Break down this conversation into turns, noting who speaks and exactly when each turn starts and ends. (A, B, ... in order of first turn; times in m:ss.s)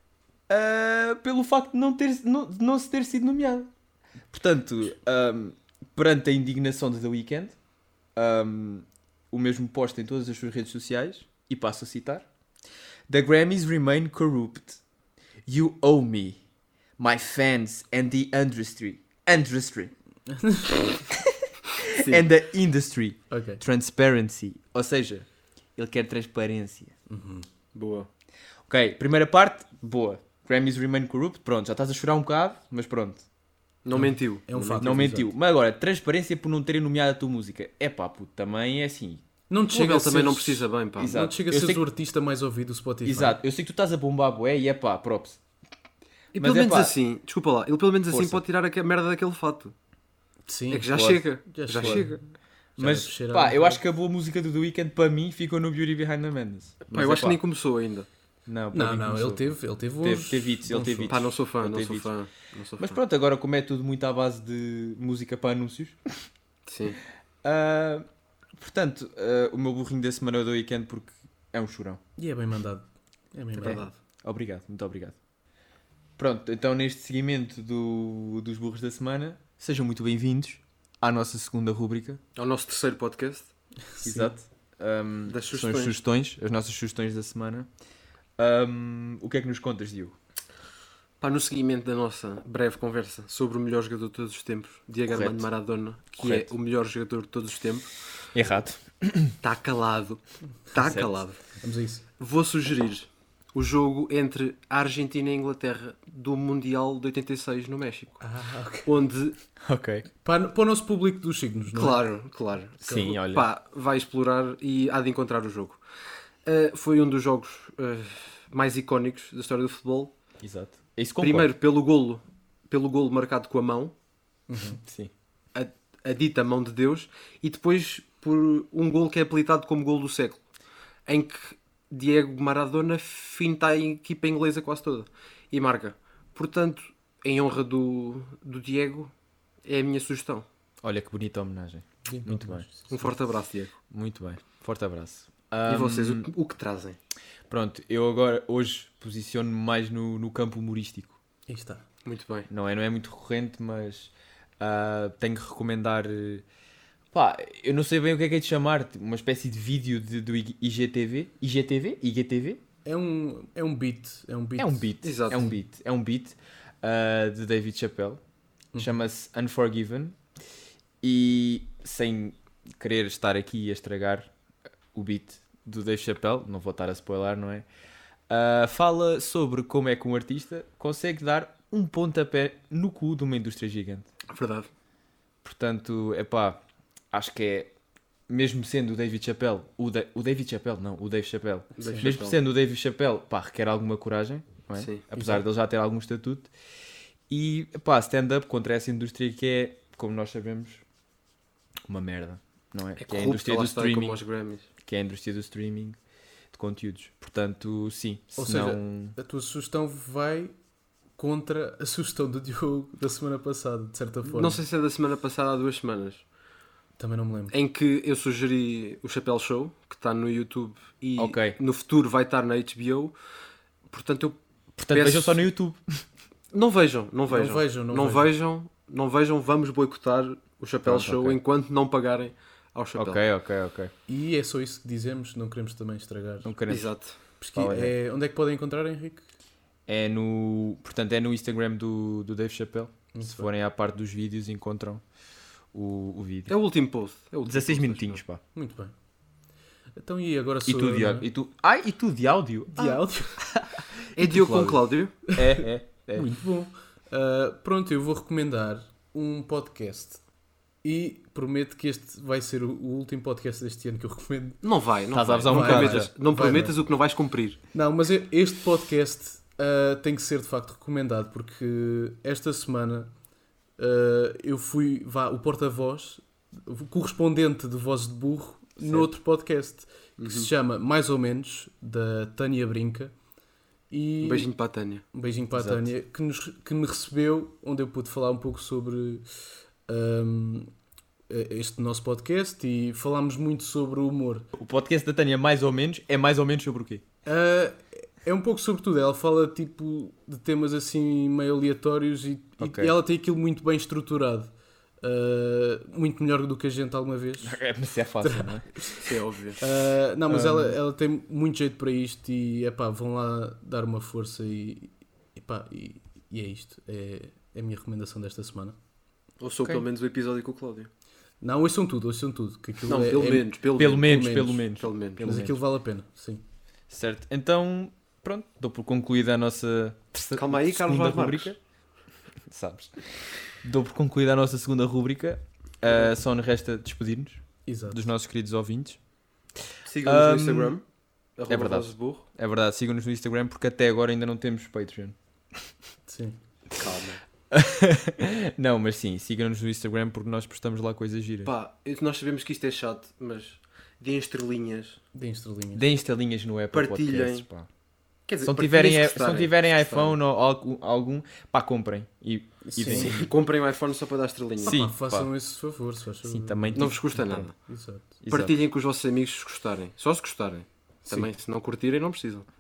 0:00.5-0:03.7 A
0:04.3-0:07.6 A
0:08.2-0:12.3 A
0:13.1-0:14.8 A
0:15.5-0:16.4 A
0:17.0-0:19.9 A
0:20.3-0:21.0 B
0:21.9-0:26.9 A
0:22.0-0:22.2 C
0:23.3-0:23.6 B
0:27.1-0:27.5 B
0:27.7-0:28.1 C
0:28.7-0:33.2 A
0:33.8-0:35.0 C
0:33.9-0:35.3 B
0:34.8-0:39.2 A
0:39.5-0:43.4 B
0:39.7-0:41.2 C
0:41.0-0:41.8 A
0:43.1-0:45.4 A
0:46.3-0:46.9 A
0:46.3-0:49.7 C
0:48.1-0:48.4 A
0:50.5-0:53.8 B
0:50.7-0:52.2 C
0:50.9-0:51.2 A
0:51.8-0:52.1 A
0:52.8-0:57.4 A
0:56.9-0:58.1 C
0:58.5-1:02.1 A
0:58.7-1:01.2 B
1:01.1-1:03.0 C
1:02.8-1:06.0 A
1:06.7-1:07.0 C
1:07.4-1:08.1 A
1:08.6-1:12.0 A
1:12.2-1:13.9 B
1:13.6-1:13.9 C
1:13.6-1:15.2 A
1:16.2-1:22.2 A
1:22.4-1:23.5 C
1:24.0-1:24.3 B
1:24.0-1:27.7 A
1:25.3-1:26.0 C
1:28.4-1:30.2 A
1:31.2-1:37.9 C
1:35.1-1:35.5 A
1:36.2-1:36.5 A
1:38.3-1:39.4 A
1:39.4-1:41.4 C
1:40.8-1:41.1 A
1:41.6-1:42.0 B
1:42.2-1:48.2 C
1:48.2-1:48.9 B
1:48.8-1:49.4 C
1:49.6-1:50.1 A
1:50.2-1:52.0 B
1:51.7-1:55.8 C
1:52.8-1:53.5 A
1:56.4-2:00.1 C
2:00.4-2:01.5 A
2:01.2-2:03.9 C
2:04.5-2:04.8 B
2:04.8-2:05.1 A
2:05.5-2:10.4 C
2:11.1-2:19.1 C
2:19.6-2:20.5 C
2:20.8-2:22.7 A
2:22.1-2:23.1 B
2:22.9-2:23.8 C
2:23.9-2:26.3 A
2:25.7-2:27.0 C
2:27.5-2:31.2 A
2:31.5-2:31.8 B
2:32.0-2:32.5 C
2:32.5-2:36.4 A
2:37.1-2:42.6 A
2:42.8-2:44.9 B
2:44.6-2:48.2 A
2:45.0-2:45.6 C
2:48.8-2:50.2 A
2:51.0-2:54.3 A
2:54.9-2:57.7 A
2:58.3-3:04.1 A
3:04.3-3:04.7 C
3:05.4-3:06.6 A
3:07.1-3:07.7 A
3:08.3-3:16.5 A
3:11.8-3:12.4 C
3:11.8-3:12.0 B
3:14.8-3:15.0 C
3:15.1-3:15.4 B
3:17.3-3:20.8 A
3:21.9-3:24.2 A
3:23.0-3:24.7 C
3:24.8-3:26.0 A
3:26.5-3:29.2 A
3:28.4-3:30.5 B
3:31.2-3:34.6 B
3:34.3-3:36.2 C
3:37.0-3:37.6 B
3:37.5-3:43.1 C
3:41.2-3:41.6 A
3:43.9-3:44.4 C
3:44.8-3:46.0 A
3:44.9-3:45.5 C
3:46.5-3:53.2 C
3:47.3-3:48.3 B
3:50.8-3:51.4 A
3:53.0-3:53.9 A
3:54.1-3:56.5 B
3:56.4-3:57.0 A
3:56.7-3:57.2 C
3:57.4-3:59.3 B
3:57.6-3:57.9 A
3:59.9-4:05.0 A
4:03.1-4:03.5 B
4:05.7-4:06.5 A
4:06.5-4:08.2 C
4:07.5-4:08.4 A
4:08.6-4:08.9 B
4:10.0-4:11.3 B
4:10.7-4:16.3 A
4:12.7-4:13.4 B
4:14.2-4:15.2 C
4:15.3-4:15.6 B
4:16.2-4:20.2 B
4:20.8-4:24.6 B
4:24.6-4:27.6 C
4:25.1-4:26.1 A
4:25.5-4:26.8 B
4:27.7-4:33.1 B
4:33.8-4:43.1 B
4:38.8-4:39.1 A
4:40.2-4:40.5 C
4:43.9-4:44.5 B
4:44.2-4:45.0 C
4:45.1-4:50.7 B
4:45.5-4:45.9 A
4:51.3-4:54.5 B
4:54.5-4:57.0 A
4:57.2-5:07.6 B
5:02.6-5:02.9 A
5:07.4-5:08.7 A
5:08.2-5:18.8 B
5:09.0-5:09.6 C
5:10.3-5:10.8 A
5:19.4-5:20.9 C
5:21.4-5:24.7 B
5:22.8-5:25.5 C
5:23.8-5:25.6 A
5:25.2-5:26.4 B
5:26.9-5:31.6 A
5:30.4-5:31.6 C
5:32.5-5:32.9 A
5:33.6-5:39.0 A
5:37.7-5:38.0 B
5:39.9-5:40.8 C
5:40.0-5:40.7 A
5:41.4-5:42.2 C
5:41.5-5:45.2 A
5:46.1-5:46.4 B
5:46.8-5:47.2 C
5:47.5-5:51.5 A
5:51.4-5:55.0 C
5:55.1-5:55.9 B
5:55.8-5:57.7 A
5:56.7-5:57.5 C
5:58.3-6:00.2 C
5:58.4-6:03.3 A
6:02.6-6:03.2 B
6:02.9-6:04.8 C
6:04.6-6:08.1 B
6:04.7-6:05.3 A
6:06.2-6:07.5 A
6:06.8-6:07.5 C
6:08.2-6:08.6 A
6:08.3-6:12.5 C